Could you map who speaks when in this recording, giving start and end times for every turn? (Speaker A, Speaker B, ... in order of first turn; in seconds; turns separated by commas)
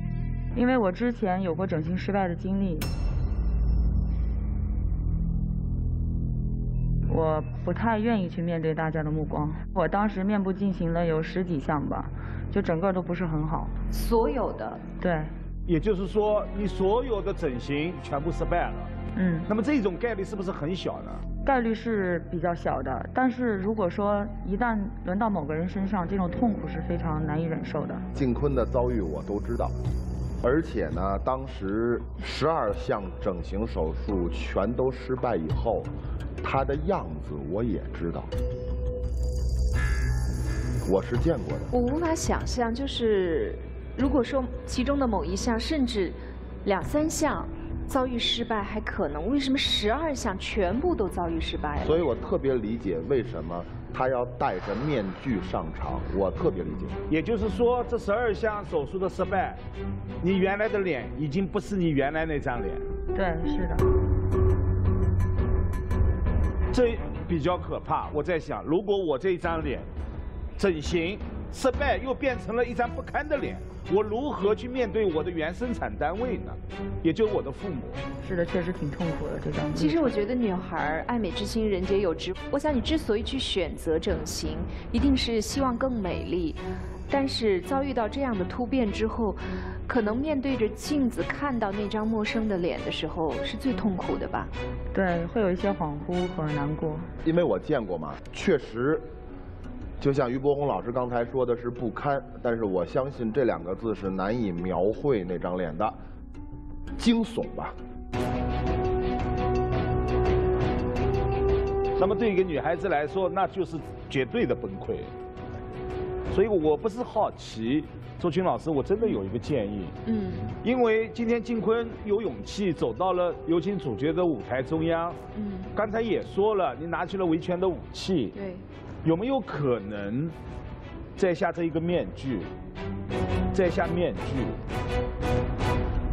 Speaker A: 0.5-2.9, Speaker A: 7.1-13.7, Speaker B: 13.9-14.8, Speaker A: 15.0-15.3, Speaker C: 15.7-18.9, Speaker A: 19.1-19.5, Speaker C: 19.5-21.2, Speaker A: 21.4-28.1, Speaker D: 28.1-29.7, Speaker D: 30.4-35.9, Speaker D: 36.4-38.3, Speaker D: 40.8-41.7, Speaker B: 41.7-52.0, Speaker D: 51.8-57.0, Speaker C: 57.1-59.6, Speaker C: 60.2-62.9, Speaker A: 63.1-63.9, Speaker C: 66.7-69.9, Speaker C: 70.6-78.0, Speaker A: 78.2-80.1, Speaker B: 79.8-94.5, Speaker A: 94.9-97.1, Speaker D: 97.2-99.1, Speaker D: 100.0-106.0, Speaker D: 107.0-107.8, Speaker C: 112.0-115.1, Speaker C: 116.3-120.0, Speaker B: 120.1-120.5, Speaker C: 120.6-125.2, Speaker B: 125.3-125.7, Speaker C: 125.8-128.3, Speaker B: 128.3-128.7, Speaker C: 129.0-130.4, Speaker C: 131.2-132.5, Speaker C: 133.5-134.6